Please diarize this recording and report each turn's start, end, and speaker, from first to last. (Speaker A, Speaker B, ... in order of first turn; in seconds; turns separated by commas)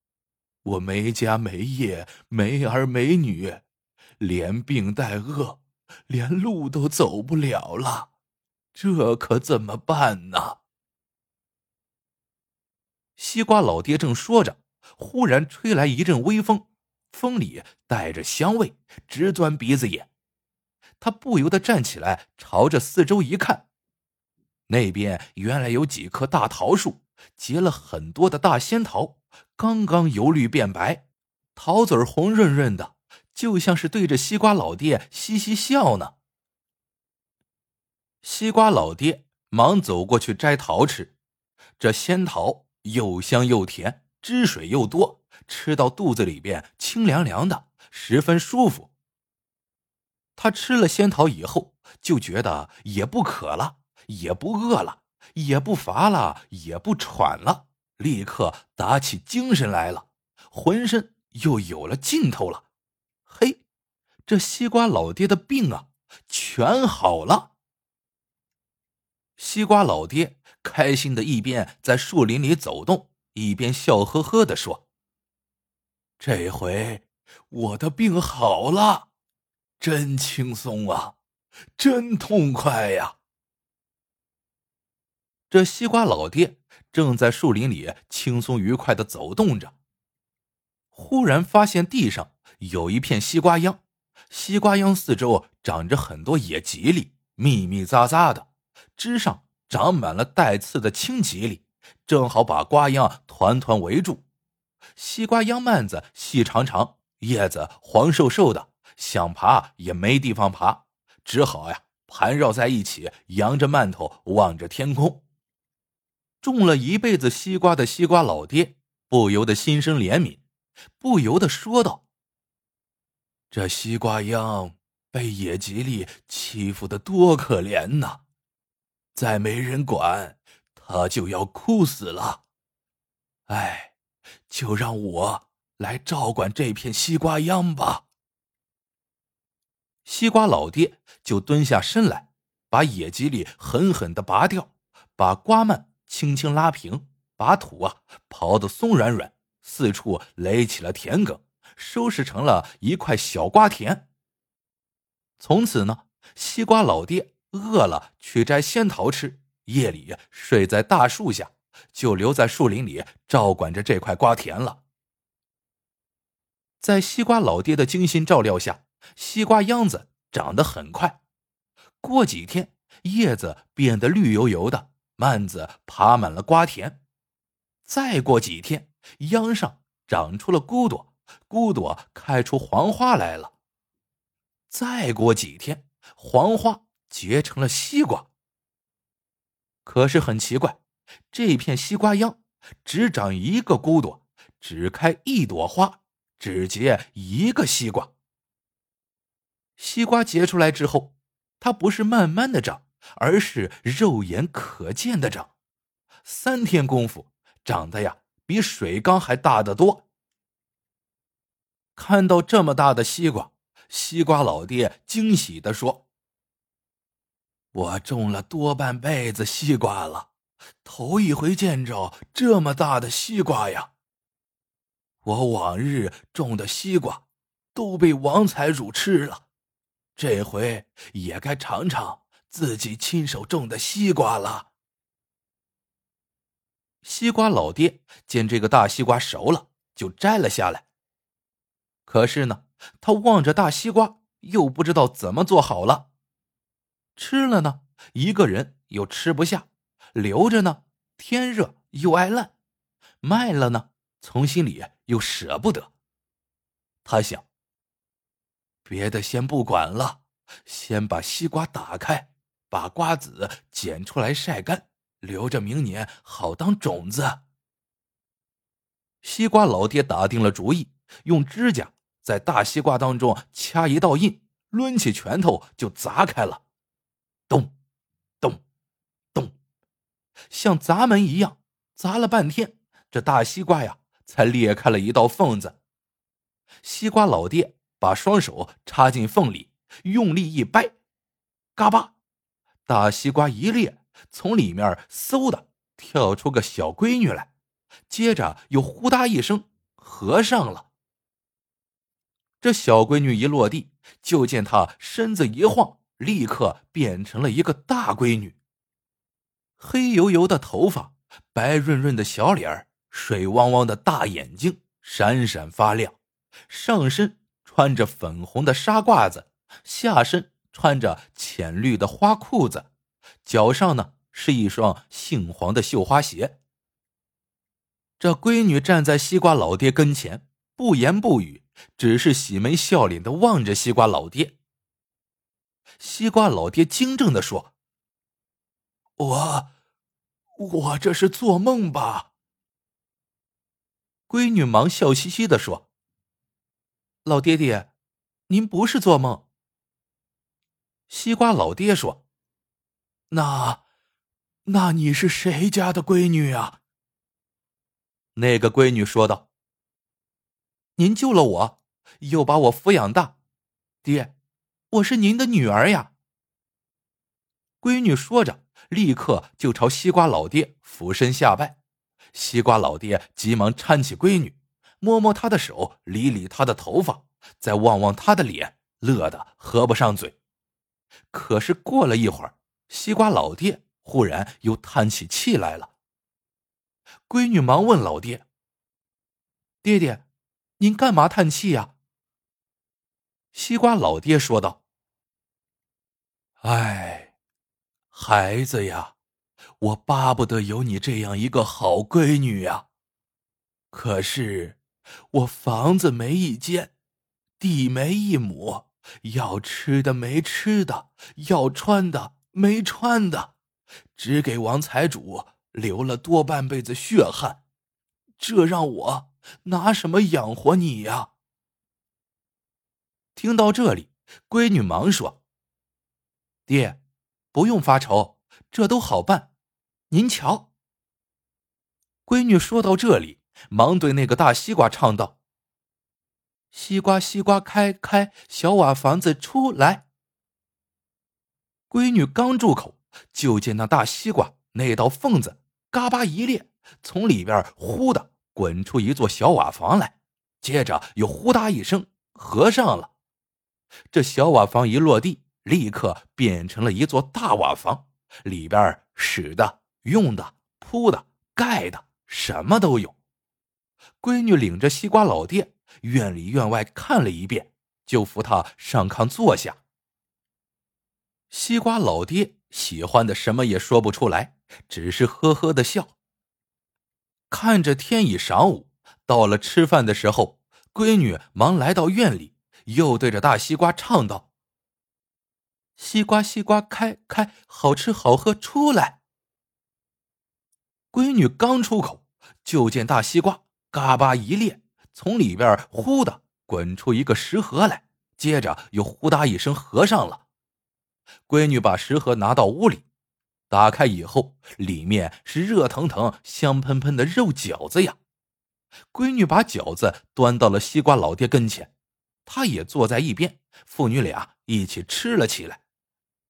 Speaker A: 0.7-3.6, Speaker A: 4.2-8.1, Speaker A: 8.8-10.6, Speaker A: 13.2-20.1, Speaker A: 21.0-23.6, Speaker A: 24.7-36.1, Speaker A: 38.2-41.1, Speaker A: 41.8-48.9, Speaker A: 50.4-62.7, Speaker A: 63.3-63.6, Speaker A: 64.3-67.5, Speaker A: 69.4-74.8, Speaker A: 76.2-79.1, Speaker A: 79.8-81.2, Speaker A: 81.8-83.2, Speaker A: 85.5-89.7, Speaker A: 90.9-104.2, Speaker A: 105.0-115.2, Speaker A: 116.4-120.4, Speaker A: 121.0-122.0, Speaker A: 123.5-128.2, Speaker A: 129.2-132.4, Speaker A: 133.5-133.9, Speaker A: 134.5-138.1, Speaker A: 140.1-154.1, Speaker A: 155.4-164.8, Speaker A: 166.8-171.2, Speaker A: 172.0-177.0, Speaker A: 177.9-183.5, Speaker A: 184.7-188.3, Speaker A: 189.8-190.8, Speaker A: 191.3-198.1, Speaker A: 199.8-205.5, Speaker A: 206.2-210.0, Speaker A: 212.0-216.1, Speaker A: 217.7-220.3, Speaker A: 220.8-223.9, Speaker A: 225.2-227.2, Speaker A: 227.7-229.5, Speaker A: 230.2-234.7, Speaker A: 237.0-240.8, Speaker A: 242.1-246.1, Speaker A: 247.2-252.5, Speaker A: 253.2-255.9, Speaker A: 257.0-257.5, Speaker A: 258.9-267.4, Speaker A: 269.2-276.6, Speaker A: 277.5-277.7, Speaker A: 280.5-285.8, Speaker A: 286.8-290.9, Speaker A: 291.8-292.1, Speaker A: 292.9-297.5, Speaker A: 298.1-300.9, Speaker A: 302.6-308.6, Speaker A: 309.8-316.2, Speaker A: 316.7-322.9, Speaker A: 323.4-326.6, Speaker A: 328.2-334.6, Speaker A: 336.0-337.7, Speaker A: 339.2-339.7, Speaker A: 340.6-342.3, Speaker A: 344.3-345.9, Speaker A: 347.2-347.9, Speaker A: 348.5-349.4, Speaker A: 351.1-352.2, Speaker A: 353.3-353.8, Speaker A: 354.7-356.8, Speaker A: 358.4-359.5, Speaker A: 361.0-363.4, Speaker A: 364.0-364.3, Speaker A: 364.9-366.1, Speaker A: 367.8-371.8, Speaker A: 372.3-380.4, Speaker A: 381.3-385.9, Speaker A: 387.3-388.4, Speaker A: 389.8-390.2, Speaker A: 390.8-391.9, Speaker A: 393.5-394.8, Speaker A: 396.6-397.3, Speaker A: 398.1-399.1, Speaker A: 399.8-402.9, Speaker A: 403.9-404.8, Speaker A: 405.3-406.9, Speaker A: 407.6-413.5, Speaker A: 414.1-417.6, Speaker A: 418.4-421.3, Speaker A: 423.4-425.4, Speaker A: 426.7-427.0, Speaker A: 427.5-429.5, Speaker A: 430.1-430.7, Speaker A: 432.3-435.4, Speaker A: 436.7-440.1, Speaker A: 441.9-453.1, Speaker A: 454.1-463.1, Speaker A: 464.2-469.8, Speaker A: 471.5-476.1, Speaker A: 477.5-484.5, Speaker A: 486.0-489.2, Speaker A: 491.1-500.4, Speaker A: 501.5-503.1, Speaker A: 503.7-508.2, Speaker A: 509.1-511.9, Speaker A: 512.5-515.8